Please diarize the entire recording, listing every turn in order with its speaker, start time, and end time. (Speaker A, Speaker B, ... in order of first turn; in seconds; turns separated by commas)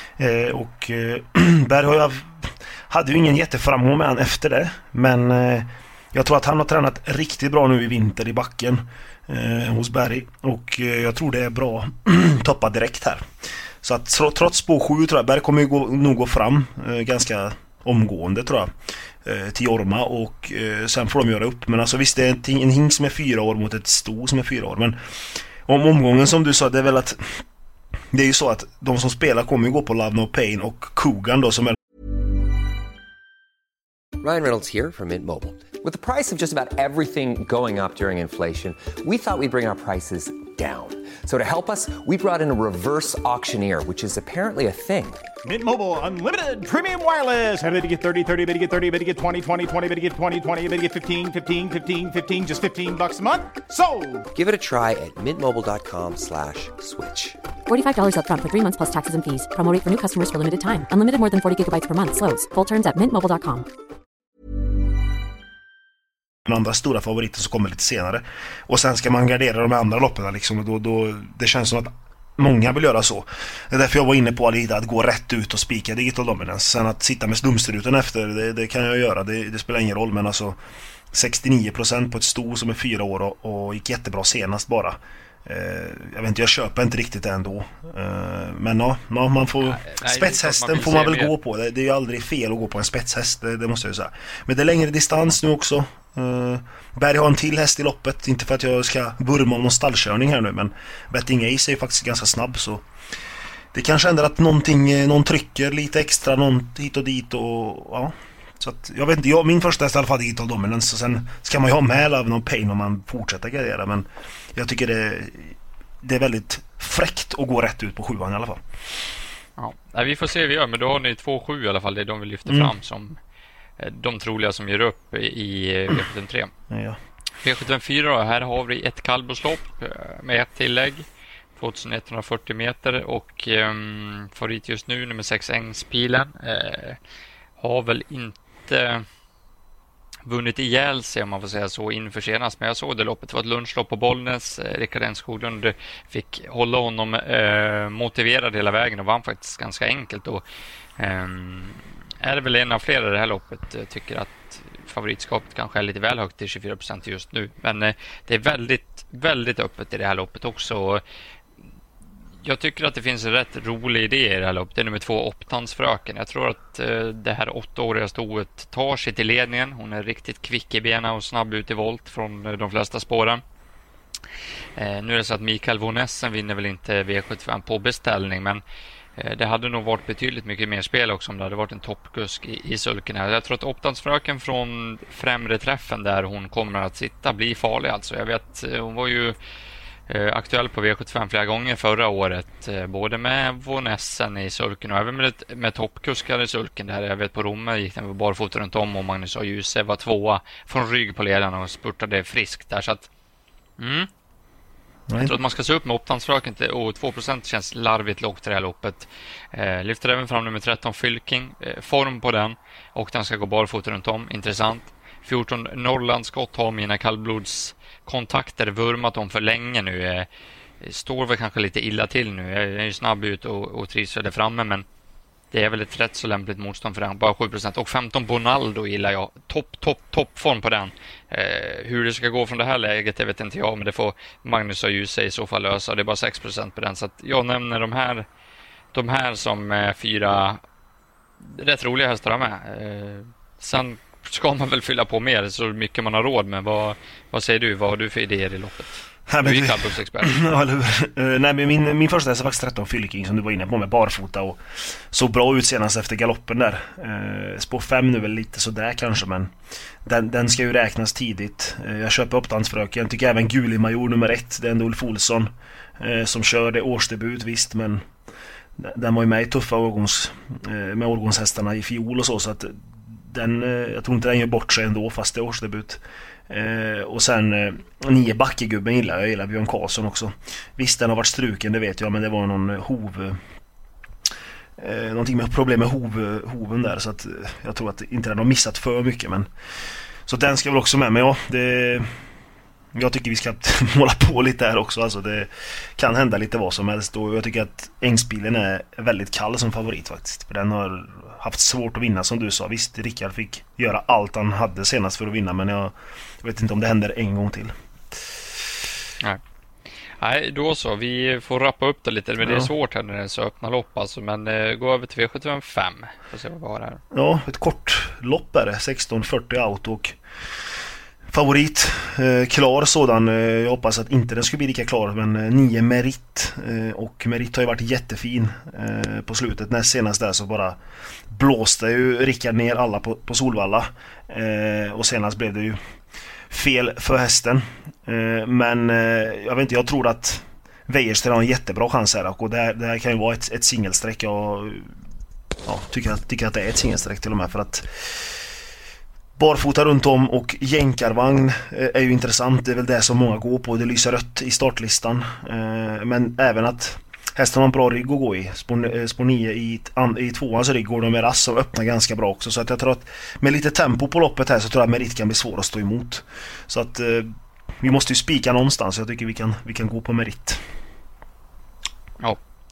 Speaker A: 0.2-13.3, Speaker A: 13.8-18.7, Speaker A: 19.2-25.0, Speaker A: 25.6-27.2, Speaker A: 28.1-31.8, Speaker B: 34.2-45.2, Speaker C: 45.4-54.3, Speaker B: 54.3-57.4, Speaker D: 57.7-63.6, Speaker A: 66.4-80.6, Speaker A: 81.1-102.8, Speaker E: 89.6-91.3, Speaker A: 103.7-118.6, Speaker E: 119.6-123.2, Speaker A: 122.5-122.7, Speaker E: 123.8-126.5, Speaker A: 126.7-127.0, Speaker E: 127.4-131.0, Speaker E: 131.6-137.0, Speaker E: 137.6-139.0, Speaker E: 140.2-150.4, Speaker E: 151.0-161.0, Speaker E: 162.4-173.4, Speaker E: 174.8-178.6, Speaker E: 179.2-189.3, Speaker E: 190.1-203.1, Speaker E: 203.8-204.1, Speaker A: 205.1-205.3, Speaker E: 205.2-220.3, Speaker E: 220.8-224.8, Speaker E: 225.5-238.3, Speaker E: 238.9-240.6, Speaker E: 241.4-250.4, Speaker A: 249.3-259.5, Speaker A: 260.0-268.1, Speaker A: 268.8-283.4, Speaker A: 284.8-289.5, Speaker A: 290.2-292.1, Speaker A: 292.9-307.7, Speaker E: 310.2-317.0, Speaker A: 312.4-312.7, Speaker A: 317.1-320.2, Speaker A: 321.3-330.8, Speaker A: 331.3-335.8, Speaker A: 336.5-344.9, Speaker A: 345.6-348.4, Speaker A: 349.4-370.6